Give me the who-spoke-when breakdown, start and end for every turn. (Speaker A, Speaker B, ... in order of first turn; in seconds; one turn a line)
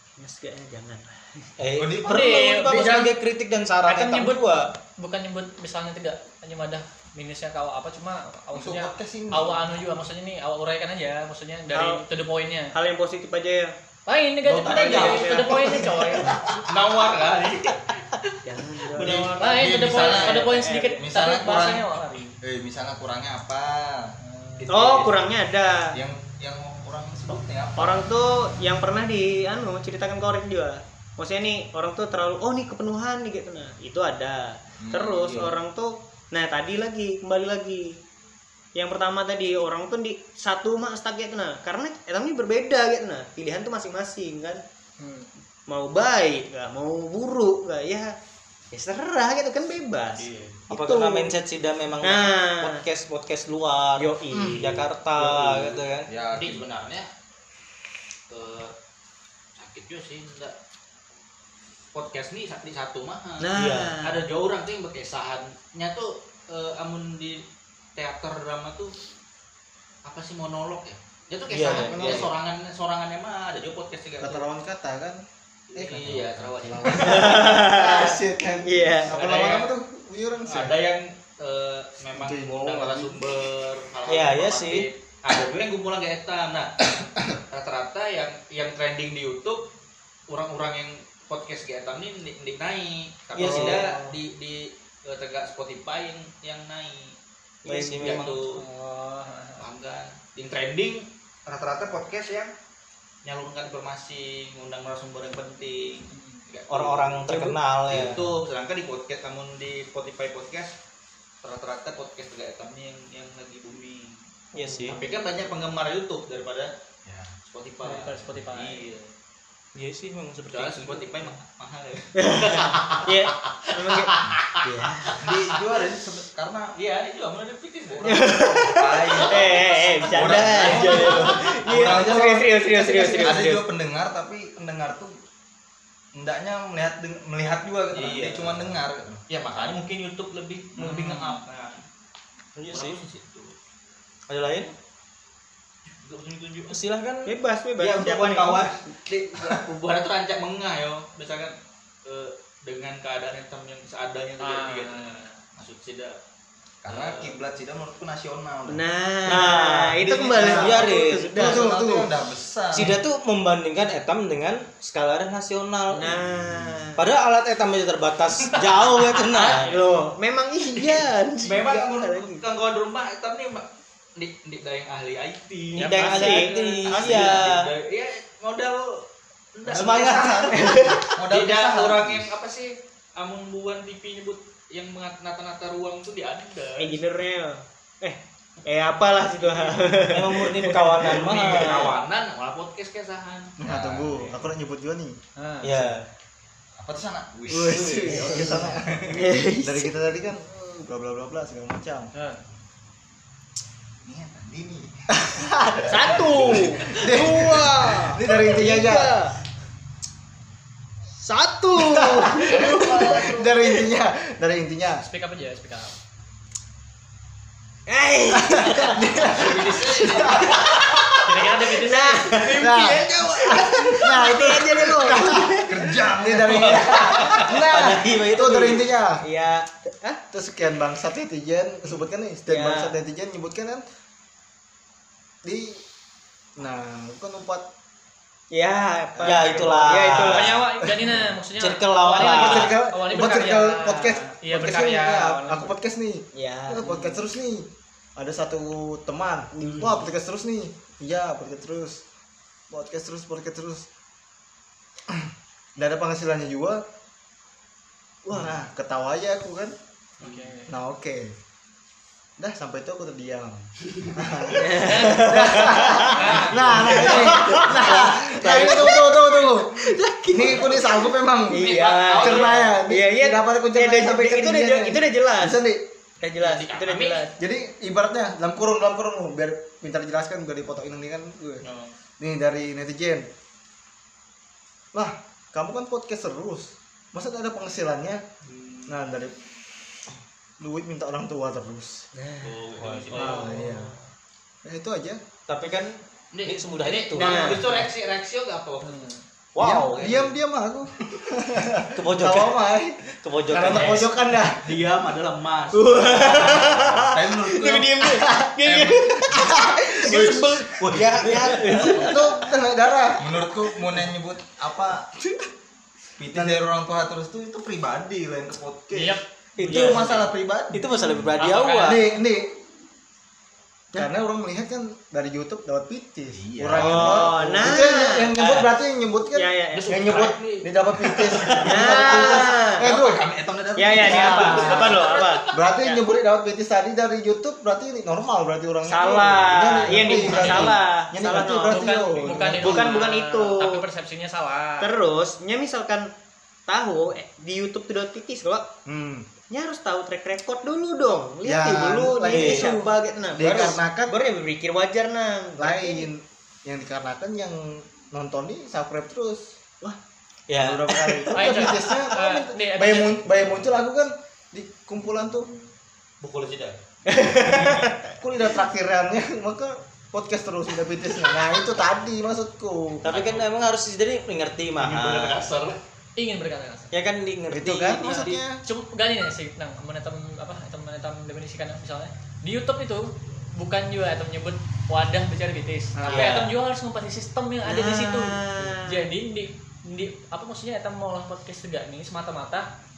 Speaker A: 0.2-1.5
Speaker B: 1.6-4.7
Speaker C: 1.7-3.1
Speaker D: 2.0-3.1
Speaker D: 3.9-12.7
Speaker C: 8.5-9.7
Speaker A: 11.7-12.0
Speaker A: 12.7-13.7
Speaker D: 14.1-16.4
Speaker C: 14.5-16.7
Speaker A: 14.6-16.3
Speaker E: 16.7-18.3
Speaker A: 18.4-21.0
Speaker D: 18.9-22.4
Speaker C: 19.0-21.9
Speaker C: 22.4-25.2
Speaker E: 24.6-25.1
Speaker A: 24.7-26.0
Speaker C: 25.9-28.0
Speaker A: 27.8-38.0
Speaker C: 34.8-35.5
Speaker A: 38.7-44.6
Speaker D: 45.0-45.3
Speaker A: 45.7-48.1
Speaker A: 48.7-51.4
Speaker E: 50.2-50.6
Speaker B: 50.7-56.1
Speaker A: 52.0-52.8
Speaker A: 54.0-55.8
Speaker F: 54.3-54.6
Speaker C: 56.1-56.6
Speaker E: 56.3-57.1
Speaker E: 58.3-58.7
Speaker E: 59.5-60.5
Speaker E: 61.9-67.4
Speaker A: 63.4-64.2
Speaker B: 63.5-64.0
Speaker E: 68.0-68.9
Speaker E: 70.0-74.5
Speaker B: 71.5-72.3
Speaker F: 71.7-72.3
Speaker F: 74.2-75.2
Speaker E: 75.7-77.5
Speaker F: 75.7-80.8
Speaker C: 76.0-76.3
Speaker A: 76.9-79.2
Speaker E: 79.1-79.7
Speaker E: 80.4-89.7
Speaker F: 82.2-83.2
Speaker B: 84.0-84.9
Speaker E: 90.3-97.2
Speaker B: 93.3-94.0
Speaker B: 97.6-98.4
Speaker E: 97.7-98.6
Speaker D: 98.2-99.7
Speaker E: 99.6-102.5
Speaker E: 103.2-110.7
Speaker D: 106.1-106.4
Speaker B: 106.7-108.2
Speaker C: 107.9-108.4
Speaker E: 111.4-114.2
Speaker B: 114.5-115.0
Speaker D: 114.6-115.2
Speaker E: 114.9-116.7
Speaker C: 117.0-117.3
Speaker E: 117.4-119.1
Speaker D: 117.8-118.9
Speaker B: 119.7-121.1
Speaker E: 120.5-124.6
Speaker A: 122.1-125.3
Speaker E: 125.1-125.6
Speaker C: 125.1-126.7
Speaker E: 126.7-128.5
Speaker C: 127.9-135.1
Speaker A: 128.0-133.7
Speaker E: 129.2-132.1
Speaker C: 136.1-139.2
Speaker E: 137.9-138.7
Speaker E: 139.3-141.8
Speaker D: 140.8-141.4
Speaker B: 142.6-142.9
Speaker E: 142.7-143.5
Speaker B: 144.3-144.7
Speaker E: 146.0-146.8
Speaker B: 146.7-147.3
Speaker A: 147.2-148.8
Speaker C: 147.8-148.8
Speaker E: 147.9-156.2
Speaker D: 154.4-155.4
Speaker C: 156.8-158.8
Speaker E: 156.9-157.3
Speaker A: 158.7-161.7
Speaker B: 159.3-159.9
Speaker C: 159.9-163.0
Speaker F: 160.3-160.7
Speaker B: 160.4-161.4
Speaker F: 161.4-162.1
Speaker B: 162.7-166.2
Speaker A: 165.9-167.0
Speaker B: 166.9-169.7
Speaker A: 169.2-172.4
Speaker E: 170.7-187.0
Speaker B: 175.7-177.7
Speaker D: 175.8-176.8
Speaker A: 176.0-177.4
Speaker B: 179.7-180.5
Speaker C: 179.7-182.3
Speaker A: 180.2-181.1
Speaker A: 186.8-191.9
Speaker E: 189.4-190.0
Speaker B: 190.0-191.9
Speaker E: 191.1-193.5
Speaker F: 193.6-195.2
Speaker C: 193.6-194.4
Speaker D: 195.3-195.9
Speaker B: 195.6-196.1
Speaker C: 196.8-199.3
Speaker A: 197.5-199.9
Speaker F: 197.7-202.1
Speaker D: 202.1-202.4
Speaker C: 204.0-205.0
Speaker F: 205.1-209.2
Speaker A: 205.7-209.3
Speaker C: 206.0-207.0
Speaker A: 211.2-213.8
Speaker F: 211.8-215.0
Speaker D: 215.0-216.0
Speaker A: 217.9-220.2
Speaker F: 218.3-221.2
Speaker E: 219.2-220.7
Speaker C: 219.6-220.7
Speaker D: 221.2-222.3
Speaker A: 221.6-222.8
Speaker F: 222.4-229.2
Speaker C: 222.6-223.9
Speaker E: 222.7-223.6
Speaker A: 223.4-225.8
Speaker C: 225.5-227.2
Speaker E: 226.4-227.6
Speaker A: 227.1-227.5
Speaker B: 227.5-228.9
Speaker A: 229.1-230.2
Speaker F: 230.3-233.8
Speaker A: 232.5-232.9
Speaker F: 235.4-235.8
Speaker F: 236.6-237.7
Speaker A: 238.5-240.6
Speaker F: 239.2-239.9
Speaker B: 239.2-240.6
Speaker D: 240.1-245.7
Speaker B: 241.6-242.8
Speaker F: 242.1-252.0
Speaker A: 246.3-247.2
Speaker A: 249.5-250.1
Speaker F: 252.7-253.9
Speaker F: 255.1-256.8
Speaker F: 258.2-259.7
Speaker D: 260.2-260.7
Speaker F: 260.7-261.3
Speaker F: 262.4-275.9
Speaker A: 264.5-275.6
Speaker D: 264.9-265.1
Speaker D: 266.1-267.3
Speaker E: 266.3-266.9
Speaker E: 271.5-272.8
Speaker A: 276.2-277.3
Speaker E: 276.4-277.3
Speaker F: 277.4-281.6
Speaker E: 281.6-281.9
Speaker F: 282.2-283.3
Speaker F: 284.9-288.2
Speaker E: 288.4-288.9
Speaker F: 288.9-289.3
Speaker F: 290.6-292.1
Speaker A: 292.1-293.9
Speaker E: 292.4-293.5
Speaker B: 292.8-293.2
Speaker F: 293.1-293.9
Speaker F: 294.6-295.2
Speaker B: 295.5-297.5
Speaker E: 296.3-300.3
Speaker A: 297.1-297.7
Speaker D: 298.8-299.1
Speaker B: 299.5-300.1
Speaker F: 299.6-304.9
Speaker B: 301.9-302.6
Speaker B: 303.2-304.1
Speaker E: 303.6-304.1
Speaker E: 304.6-306.8
Speaker A: 305.7-312.4
Speaker C: 306.4-308.0
Speaker F: 308.1-308.5
Speaker C: 308.6-309.1
Speaker F: 309.3-310.6
Speaker B: 310.0-312.2
Speaker E: 311.1-311.8
Speaker F: 311.7-313.6
Speaker C: 313.2-315.1
Speaker C: 316.2-321.3
Speaker F: 316.3-316.6
Speaker D: 318.9-320.0
Speaker B: 319.6-322.1
Speaker E: 321.4-321.9
Speaker D: 321.4-321.9
Speaker F: 321.8-322.5
Speaker F: 323.9-333.2
Speaker C: 326.3-327.2
Speaker B: 326.8-327.7
Speaker A: 326.8-328.3
Speaker B: 328.4-328.7
Speaker A: 329.3-330.1
Speaker E: 329.7-332.1
Speaker A: 331.6-332.9
Speaker C: 331.8-335.0
Speaker A: 333.8-336.0
Speaker F: 334.0-334.9
Speaker E: 334.0-335.6
Speaker F: 335.5-343.0
Speaker A: 338.9-343.8
Speaker D: 340.2-340.7
Speaker D: 341.7-344.9
Speaker A: 344.8-346.1
Speaker A: 346.7-348.7
Speaker F: 348.9-349.3
Speaker A: 349.5-356.1
Speaker F: 351.4-354.1
Speaker B: 352.3-352.8
Speaker F: 355.6-359.6
Speaker B: 360.5-361.8
Speaker F: 360.6-365.5
Speaker D: 361.3-363.5
Speaker E: 366.2-366.8
Speaker A: 367.1-368.0
Speaker E: 367.5-367.9
Speaker F: 368.2-373.2
Speaker B: 373.0-375.4
Speaker E: 373.1-373.5
Speaker E: 374.8-375.8
Speaker D: 376.2-376.9
Speaker B: 376.9-378.4
Speaker F: 377.5-378.6
Speaker D: 378.6-392.7
Speaker F: 385.9-386.3
Speaker B: 386.1-386.5
Speaker A: 387.6-389.0